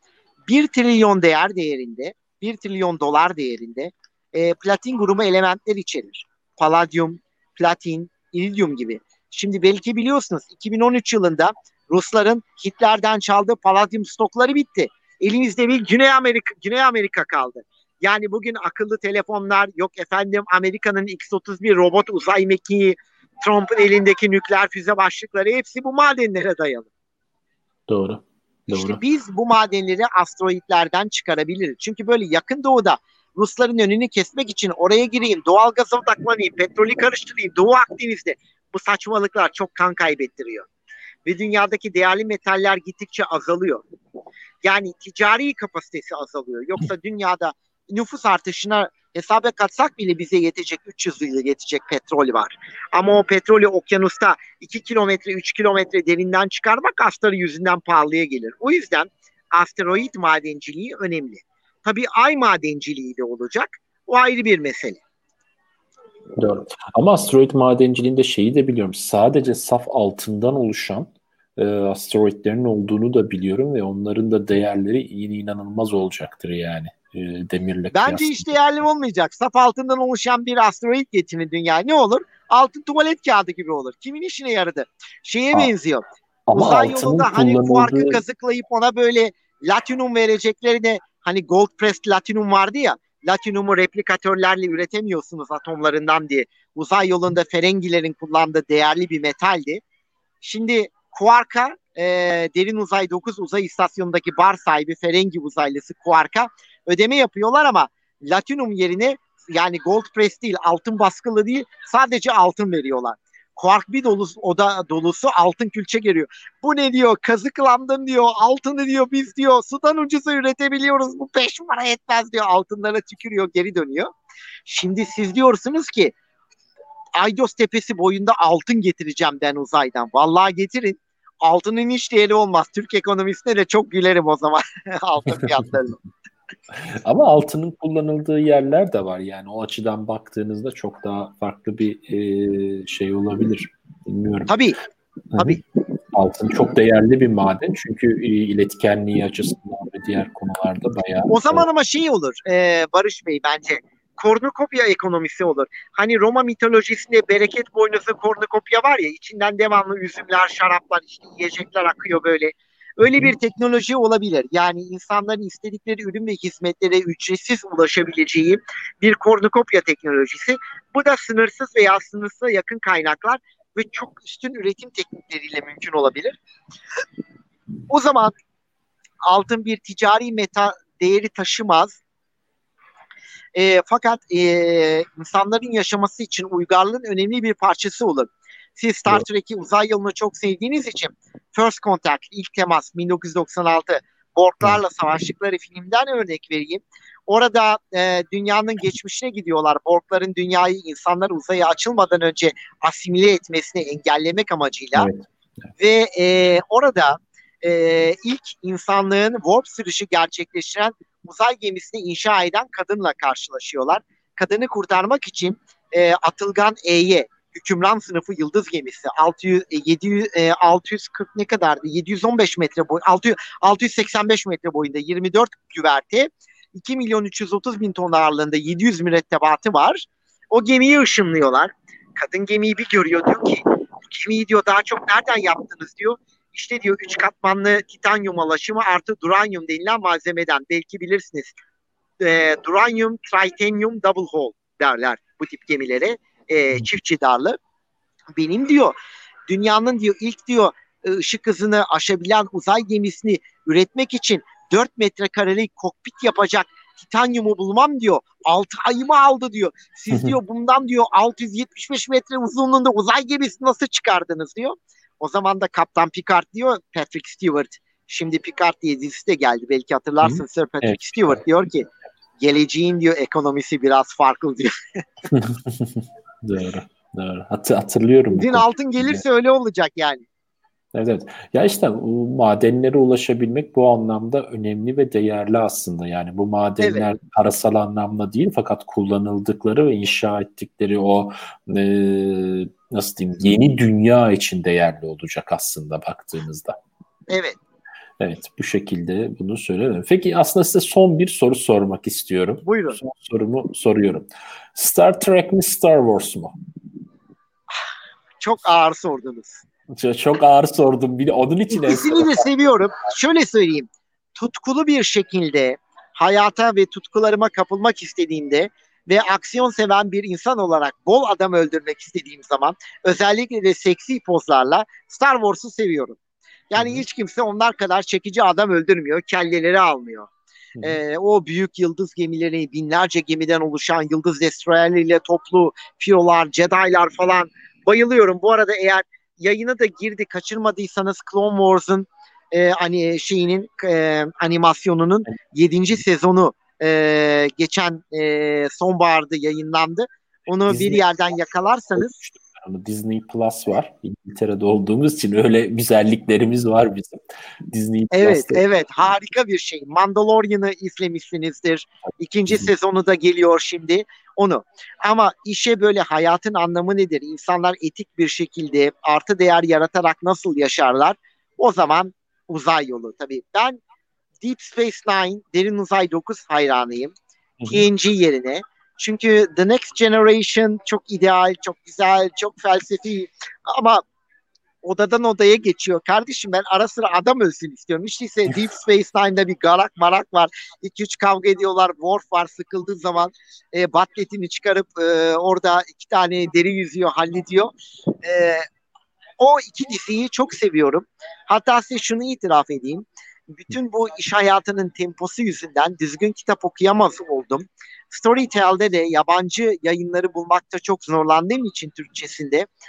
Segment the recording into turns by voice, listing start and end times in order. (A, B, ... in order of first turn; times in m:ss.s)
0:00.5-0:26.9 A
0:27.9-0:29.0 B
0:28.7-0:40.7 A
0:41.2-0:43.8 A
0:44.6-1:05.0 A
1:06.4-1:18.5 B
1:17.9-1:39.8 A
1:26.5-1:28.2 B
1:40.4-2:04.1 A
2:04.7-2:06.2 A
2:07.2-2:16.0 A
2:16.7-2:24.6 B
2:24.5-2:24.8 A
2:25.3-2:25.6 B
2:26.1-2:31.6 B
2:31.3-2:56.4 A
2:57.9-2:58.3 A
2:59.3-3:02.0 A
3:03.6-3:25.1 A
3:25.0-3:25.3 B
3:25.8-4:01.6 A
4:02.2-4:07.6 A
4:08.4-4:09.0 A
4:09.5-4:31.9 A
4:30.2-4:31.4 B
4:32.4-4:34.7 A
4:35.3-4:39.2 B
4:38.3-4:40.2 A
4:40.9-4:56.8 B
4:46.8-4:47.1 A
4:57.3-4:57.6 A
4:58.2-5:06.5 B
5:02.6-5:03.0 A
5:08.4-5:09.6 A
5:10.0-5:12.5 B
5:11.7-5:26.2 A
5:26.7-5:30.3 A
5:26.8-5:27.0 B
5:30.8-5:52.1 A
5:50.7-5:51.0 B
5:52.0-5:58.6 B
5:58.1-6:13.8 A
6:14.4-6:17.2 A
6:17.6-6:17.9 B
6:17.7-6:24.0 A
6:24.8-6:38.7 A
6:39.4-6:52.7 A